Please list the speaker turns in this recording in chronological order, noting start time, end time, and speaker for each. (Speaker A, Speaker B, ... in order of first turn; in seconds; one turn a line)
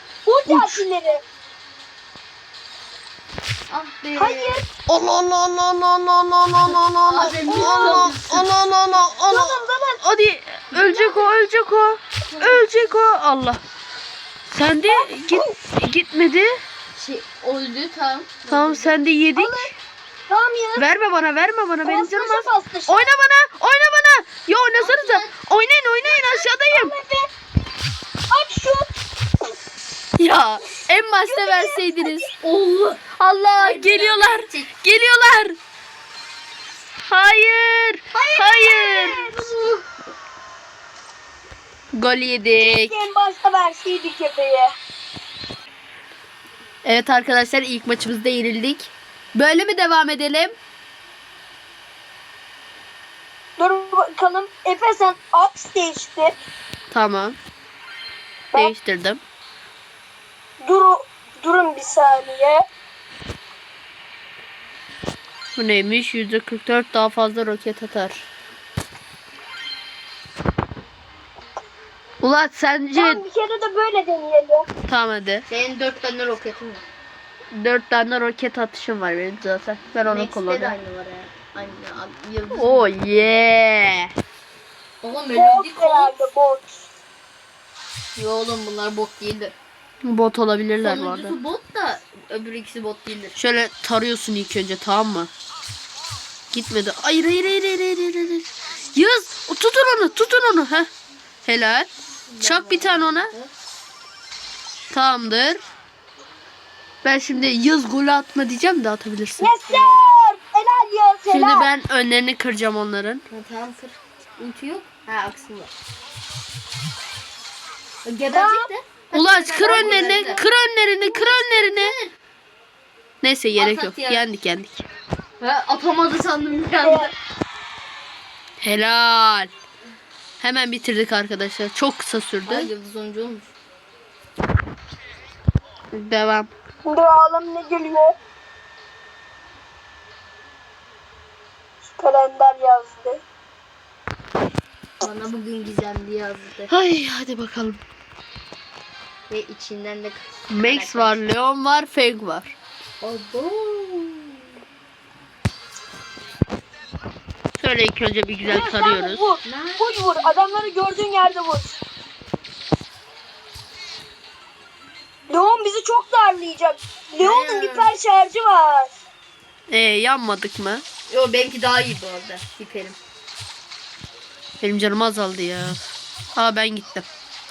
Speaker A: 0.2-1.2
Speaker B: 0.5-0.8
Speaker C: 3.7-4.6
Speaker A: 4.2-4.6
Speaker B: 4.9-13.6
Speaker C: 6.6-8.5
Speaker A: 7.5-8.2
Speaker A: 9.3-10.0
Speaker C: 10.7-11.3
Speaker C: 12.3-12.9
Speaker B: 14.5-16.6
Speaker A: 14.9-15.5
Speaker C: 16.9-19.0
Speaker B: 18.5-19.7
Speaker A: 19.4-19.7
Speaker A: 20.3-21.0
Speaker B: 20.8-26.9
Speaker A: 21.8-23.1
Speaker C: 24.8-25.4
Speaker A: 26.0-27.3
Speaker A: 28.3-28.9
Speaker B: 30.2-32.2
Speaker A: 31.3-32.3
Speaker C: 32.4-33.0
Speaker B: 33.2-35.6
Speaker C: 33.6-34.7
Speaker B: 37.1-39.3
Speaker C: 38.1-39.9
Speaker B: 41.9-43.0
Speaker A: 42.6-44.7
Speaker B: 46.8-50.5
Speaker A: 53.6-56.3
Speaker B: 56.9-57.4
Speaker B: 58.5-59.2
Speaker A: 60.6-62.6
Speaker B: 65.5-68.2
Speaker B: 72.2-73.2
Speaker A: 73.0-74.7
Speaker B: 74.8-75.4
Speaker C: 75.5-76.8
Speaker B: 77.5-80.7
Speaker C: 80.0-83.4
Speaker B: 82.5-84.1
Speaker C: 85.0-86.2
Speaker A: 85.3-86.9
Speaker C: 88.2-89.5
Speaker B: 90.0-91.3
Speaker C: 90.8-93.3
Speaker B: 93.3-95.3
Speaker B: 96.5-100.9
Speaker B: 101.4-101.9
Speaker C: 102.3-103.5
Speaker B: 102.4-103.3
Speaker B: 104.9-105.6
Speaker B: 107.0-109.5
Speaker A: 109.4-111.7
Speaker C: 109.7-110.1
Speaker B: 111.3-113.2
Speaker C: 113.3-115.7
Speaker C: 118.0-120.4
Speaker A: 118.3-118.7
Speaker B: 119.1-121.9
Speaker A: 119.6-120.5
Speaker C: 121.0-122.1
Speaker B: 123.2-124.8
Speaker C: 123.5-124.2
Speaker C: 125.4-127.1
Speaker A: 126.8-127.1
Speaker B: 128.6-129.5
Speaker B: 130.4-132.7
Speaker C: 132.4-133.5
Speaker B: 135.9-136.5
Speaker A: 136.8-138.1
Speaker A: 141.9-143.2
Speaker C: 145.0-146.7
Speaker B: 146.7-147.8
Speaker C: 149.3-151.2
Speaker B: 150.5-152.5
Speaker C: 153.0-154.4
Speaker B: 157.6-159.2
Speaker A: 158.5-161.8
Speaker C: 159.4-160.7
Speaker A: 165.3-168.9
Speaker C: 167.2-167.9
Speaker B: 169.7-170.8
Speaker C: 171.1-173.0
Speaker B: 174.6-175.8
Speaker B: 176.3-177.1